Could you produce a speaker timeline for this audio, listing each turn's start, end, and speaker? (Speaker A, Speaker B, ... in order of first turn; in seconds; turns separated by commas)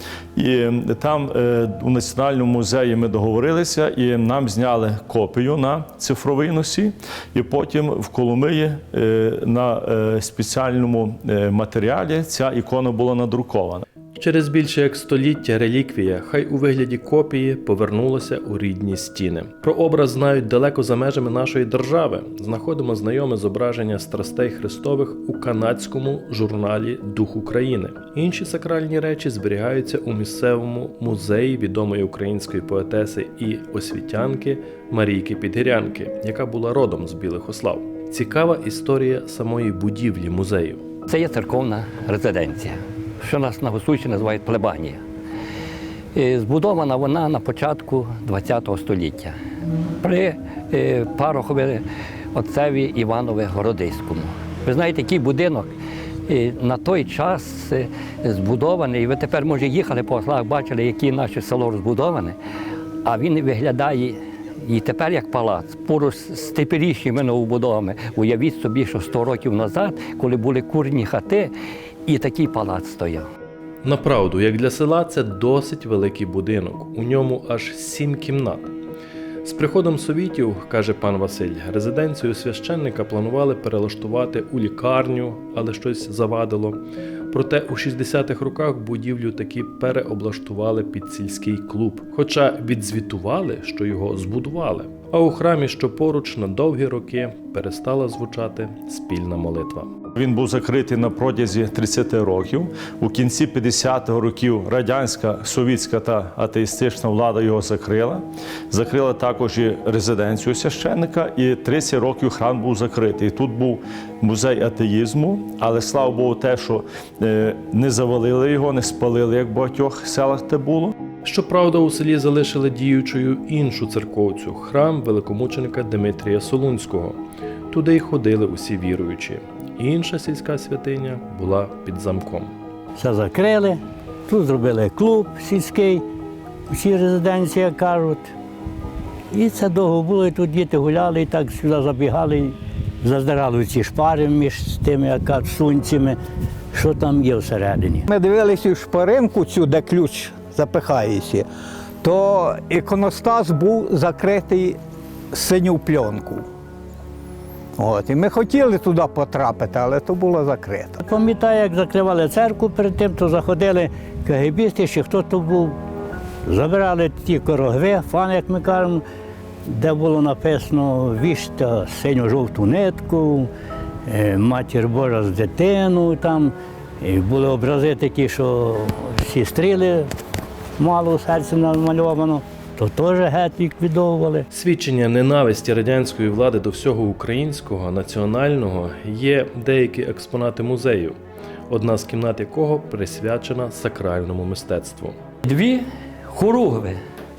Speaker A: 0.4-13.9, Speaker B: 14.2-40.8, Speaker C: 41.1-45.0, Speaker C: 46.1-49.4, Speaker C: 50.0-55.7, Speaker C: 56.3-62.4, Speaker C: 63.0-71.5, Speaker C: 72.1-73.3, Speaker B: 73.8-78.7, Speaker B: 79.4-99.9, Speaker A: 100.1-121.0, Speaker B: 121.2-127.2, Speaker B: 127.7-132.5, Speaker D: 133.0-136.0, Speaker D: 136.7-138.2, Speaker D: 139.3-146.2, Speaker D: 146.7-148.0, Speaker E: 148.1-151.5, Speaker E: 152.0-154.8, Speaker E: 155.3-156.4, Speaker E: 157.8-161.0, Speaker D: 161.0-165.7, Speaker D: 166.5-169.0, Speaker D: 169.8-173.5, Speaker D: 174.1-180.1, Speaker D: 180.8-184.4, Speaker B: 184.5-191.2, Speaker B: 191.7-195.2, Speaker C: 195.4-197.0